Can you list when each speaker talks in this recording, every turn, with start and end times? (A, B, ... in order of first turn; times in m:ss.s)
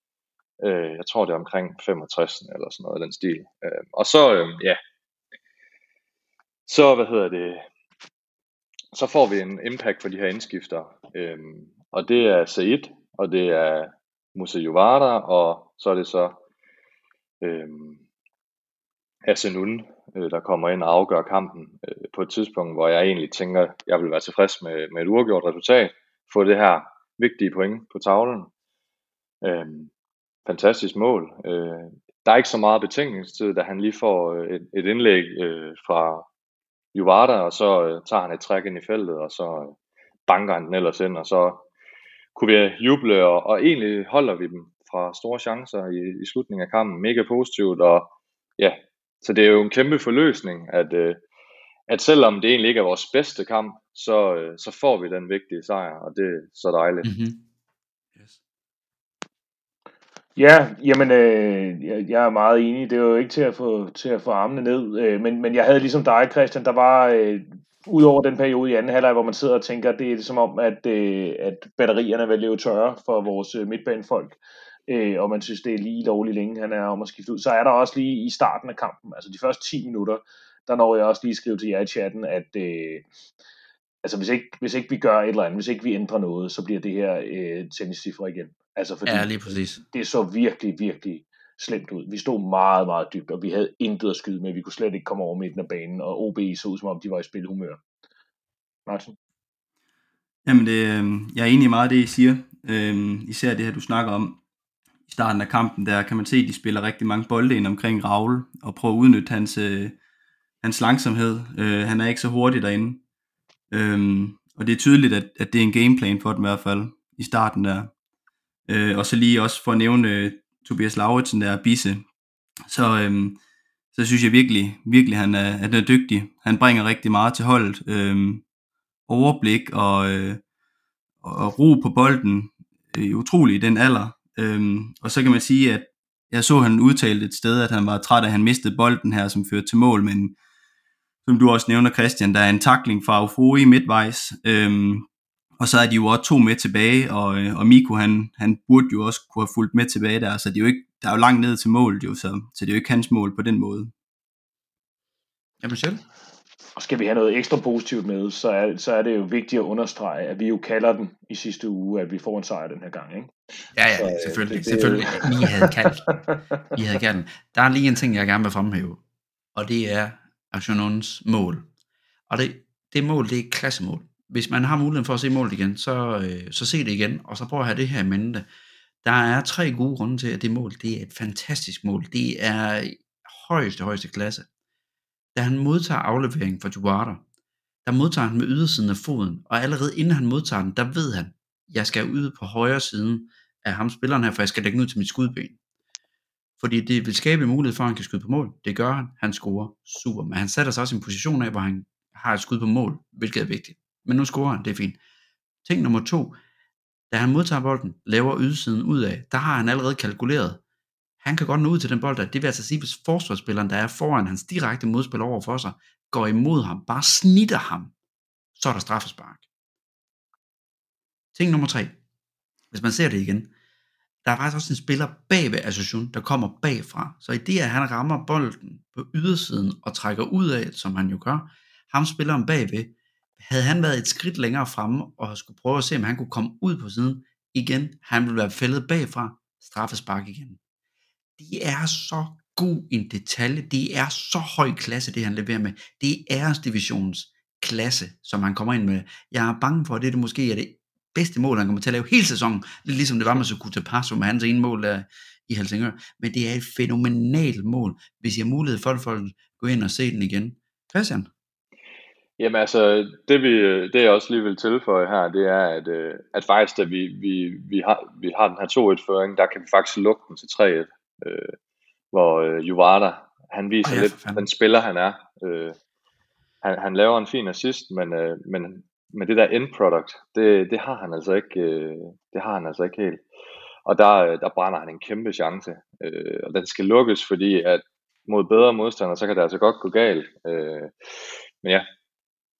0:00.6-0:04.8 A
0:06.7-0:07.6 A
0:08.9-0:16.4 A
0:17.4-0:18.0 A
0:19.3-0:28.5 A
0:29.4-0:29.9 A
0:30.5-0:36.3 A
0:37.0-0:39.8 A
0:40.3-0:41.6 A
0:42.4-0:51.2 A
0:51.9-0:57.1 A
0:57.0-0:57.4 B
1:00.4-1:14.4 C
1:14.9-1:23.1 C
1:24.0-1:37.8 C
1:29.1-1:29.8 B
1:38.9-1:39.2 C
1:40.4-1:44.4 D
1:45.1-1:50.0 D
1:50.6-1:53.0 D
1:53.7-1:57.9 D
1:58.7-2:02.0 D
2:02.7-2:03.4 D
2:03.9-2:08.4 D
2:09.1-2:10.4 D
2:11.2-2:20.4 D
2:21.2-2:25.1 D
2:25.6-2:33.9 D
2:35.6-2:36.0 B
2:36.8-2:43.3 C
2:43.7-2:46.1 B
2:44.0-2:45.9 C
2:46.7-2:49.0 B
2:49.6-2:51.7 B
2:52.3-2:58.4 B
2:59.0-3:04.5 B
3:05.4-3:07.2 B
3:07.8-3:15.6 B
3:16.6-3:25.0 B
3:25.6-3:26.4 B
3:27.1-3:30.6 B
3:31.2-3:37.9 B
3:38.6-3:39.5 B
3:41.4-3:42.0 B
3:42.7-3:43.5 B
3:44.2-4:00.6 B
4:01.4-4:21.3 B
4:22.4-4:31.5 A
4:32.1-4:35.8 A
4:33.8-4:34.5 B
4:36.6-4:43.2 A
4:43.9-4:50.9 A